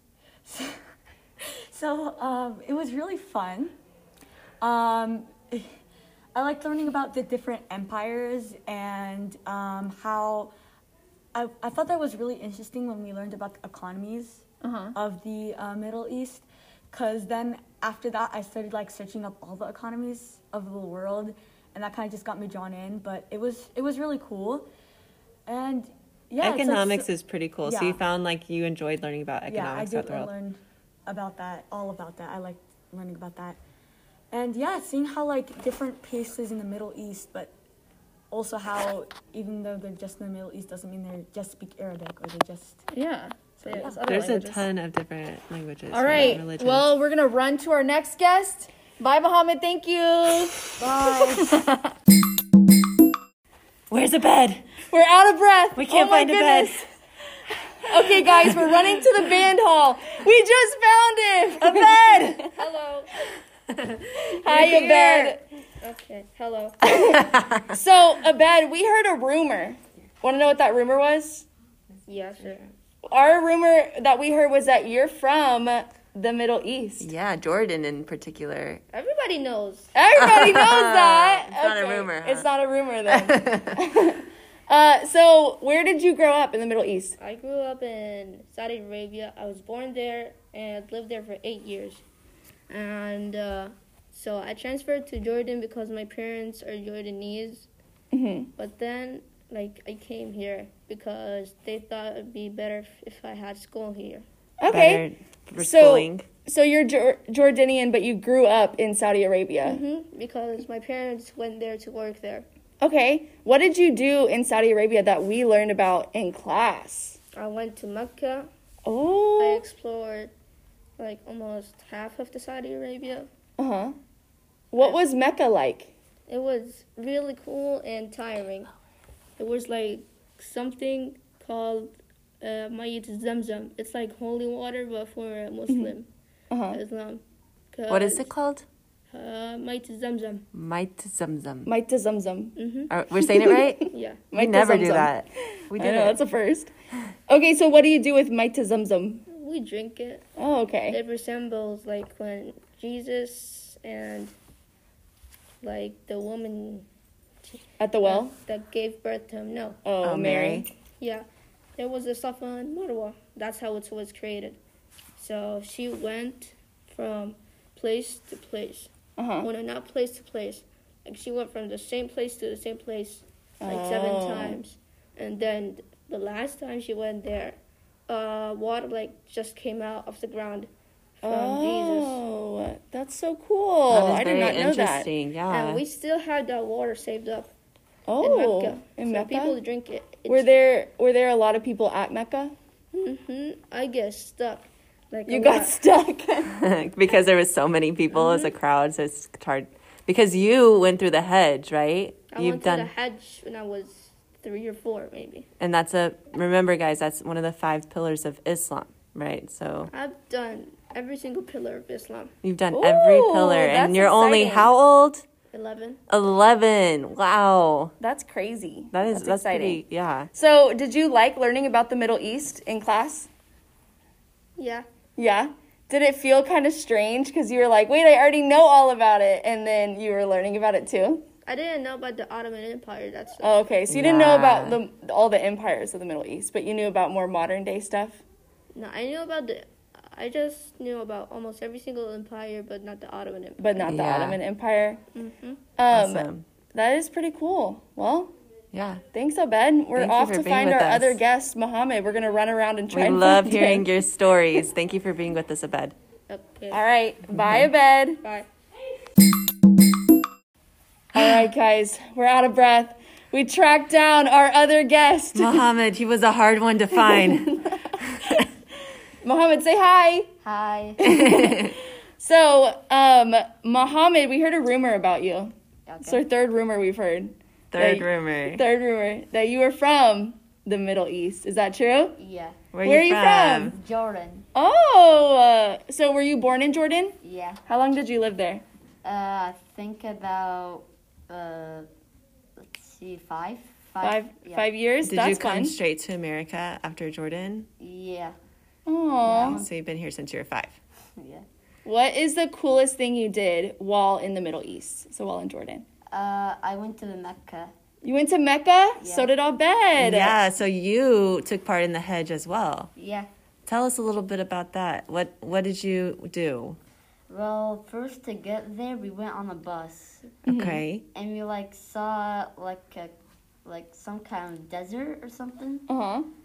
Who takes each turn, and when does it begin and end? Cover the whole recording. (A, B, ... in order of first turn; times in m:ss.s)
0:00.5-0:00.8 A
0:01.7-0:03.7 A
0:04.6-0:05.7 A
0:06.3-0:10.5 A
0:11.3-0:14.4 A
0:14.6-0:14.9 B
0:14.9-0:24.6 A
0:25.5-0:27.1 A
0:26.4-0:30.3 C
0:27.6-0:28.0 A
0:29.5-0:33.6 A
0:34.3-0:37.5 A
0:38.3-0:42.8 A
0:42.9-0:44.6 B
0:43.6-0:44.0 A
0:44.0-0:46.9 C
0:45.9-0:50.6 B
0:50.8-0:51.6 A
0:51.4-0:51.9 B
0:53.9-0:54.6 C
0:54.9-0:56.8 B
0:55.8-0:56.8 C
0:57.8-1:02.4 B
1:01.6-1:02.4 C
1:02.5-1:03.1 D
1:03.7-1:05.3 C
1:04.3-1:05.4 B
1:05.8-1:06.8 D
1:06.8-1:11.4 B
1:07.1-1:07.7 C
1:12.1-1:12.7 D
1:13.0-1:17.1 B
1:17.0-1:18.8 C
1:18.9-1:20.0 D
1:19.9-1:27.1 B
1:20.2-1:22.5 C
1:23.1-1:23.7 C
1:27.2-1:32.0 D
1:32.7-1:37.7 D
1:38.1-1:38.5 B
1:38.6-1:44.2 D
1:44.6-1:45.0 B
1:44.7-1:46.2 C
1:45.6-1:49.8 B
1:49.6-1:52.4 D
1:52.8-1:57.2 B
1:57.3-1:58.5 D
1:58.8-1:59.6 B
1:59.4-2:00.3 D
2:01.0-2:03.3 D
2:03.6-2:04.0 B
2:04.7-2:05.9 B
2:04.8-2:05.0 D
2:06.3-2:08.7 D
2:09.4-2:16.1 D
2:16.5-2:16.8 B
2:16.6-2:18.3 D
2:17.9-2:18.6 C
2:19.1-2:20.4 D
2:20.5-2:21.7 C
2:21.6-2:22.6 B
2:22.6-2:22.9 D
2:22.9-2:26.2 C
2:23.2-2:26.7 B
2:23.8-2:24.3 D
2:27.3-2:29.2 B
2:29.3-2:30.2 D
2:30.4-2:31.0 B
2:30.9-2:34.3 D
2:35.6-2:36.8 D
2:37.8-2:38.3 B
2:38.0-2:39.8 D
2:39.8-2:40.7 B
2:40.0-2:40.7 C
2:41.0-2:41.2 D
2:41.8-2:44.6 D
2:45.2-3:02.2 D
2:49.2-2:49.5 B
2:53.6-2:54.6 B
3:01.2-3:05.1 B
3:03.9-3:05.8 C
3:05.5-3:07.5 D
3:08.1-3:09.6 B
3:08.2-3:10.5 D
3:10.3-3:12.5 B
3:12.9-3:15.8 D
3:15.3-3:16.5 B
3:16.5-3:22.9 C
3:18.1-3:18.5 D
3:22.3-3:25.5 D
3:25.6-3:29.9 C
3:29.8-3:32.3 D
3:32.4-3:35.2 C
3:32.7-3:34.7 B
3:35.5-3:36.0 D
3:36.1-3:37.9 C
3:38.0-3:39.8 B
3:38.9-3:40.3 C
3:40.3-3:43.3 B
3:44.6-3:44.8 D
3:45.2-3:51.2 B
3:51.4-3:53.7 D
3:53.4-3:58.2 B
3:53.9-3:54.8 C
3:58.7-4:03.8 D
4:03.6-4:05.0 B
4:03.8-4:04.4 C
4:05.1-4:05.6 D
4:05.8-4:08.3 B
4:05.9-4:06.4 C
4:08.7-4:09.0 C
4:09.1-4:13.9 B
4:09.9-4:11.2 C
4:12.9-4:15.9 C
4:16.3-4:16.8 D
4:16.7-4:18.2 B
4:17.4-4:17.7 C
4:18.2-4:18.5 D
4:21.1-4:25.6 B
4:25.3-4:28.2 C
4:27.0-4:28.5 B
4:29.2-4:30.3 B
4:30.4-4:31.0 E
4:31.0-4:42.2 B
4:31.0-4:31.7 C
4:35.8-4:36.2 E
4:37.7-4:38.6 C
4:42.2-4:42.6 E
4:42.7-4:43.8 C
4:42.8-4:43.7 B
4:43.7-4:44.5 E
4:44.5-4:48.6 B
4:47.2-4:47.6 E
4:49.0-4:51.9 E
4:52.6-4:54.7 E
4:54.0-4:55.8 B
4:55.0-4:57.7 C
4:57.8-4:58.3 E
4:58.8-4:59.6 B
4:59.2-4:59.7 E
4:59.5-5:00.8 C
5:01.2-5:01.4 E
5:01.8-5:05.8 B
5:06.1-5:07.7 E
5:08.0-5:10.4 B
5:09.0-5:09.3 E
5:10.0-5:12.9 C
5:13.0-5:13.3 E
5:13.7-5:16.8 C
5:17.3-5:20.4 E
5:20.4-5:20.8 B
5:20.4-5:21.0 C
5:21.1-5:23.1 E
5:23.6-5:25.8 E
5:25.9-5:26.3 B